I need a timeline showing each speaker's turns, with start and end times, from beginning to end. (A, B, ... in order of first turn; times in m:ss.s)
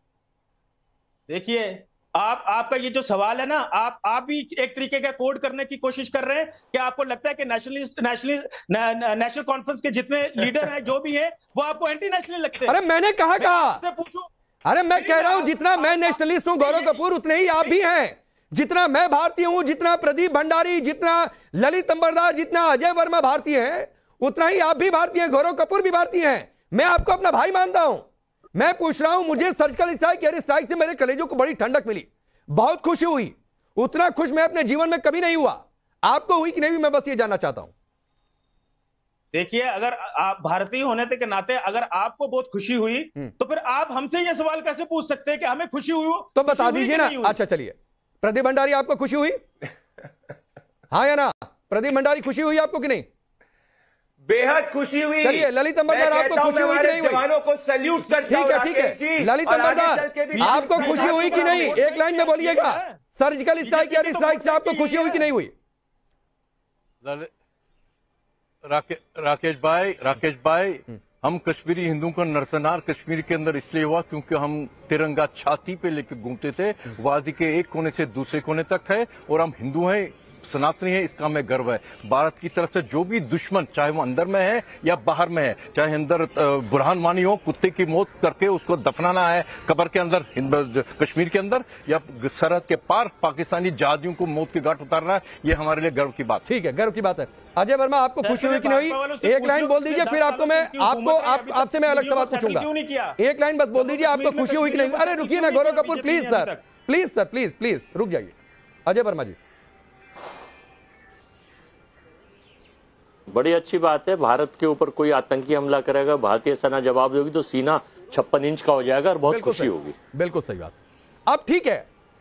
0:01.3-0:12.8 A
0:12.7-0:13.8 B
0:13.4-0:14.3 A
0:14.7-0:37.7 B
0:14.9-0:17.0 A
0:39.3-0:47.4 A
0:46.4-0:49.4 B
0:50.9-0:53.1 B
0:54.3-1:01.8 C
0:55.2-0:57.2 B
0:58.0-0:58.3 A
0:58.3-1:05.5 B
1:00.4-1:03.0 A
1:03.6-1:05.3 A
1:07.0-1:07.3 D
1:08.6-1:36.4 D
1:36.5-1:48.4 B
1:38.2-1:43.2 A
1:43.8-1:46.6 A
1:48.9-1:49.4 B
1:53.3-2:00.0 E
1:59.3-2:00.8 B
2:01.3-2:01.9 B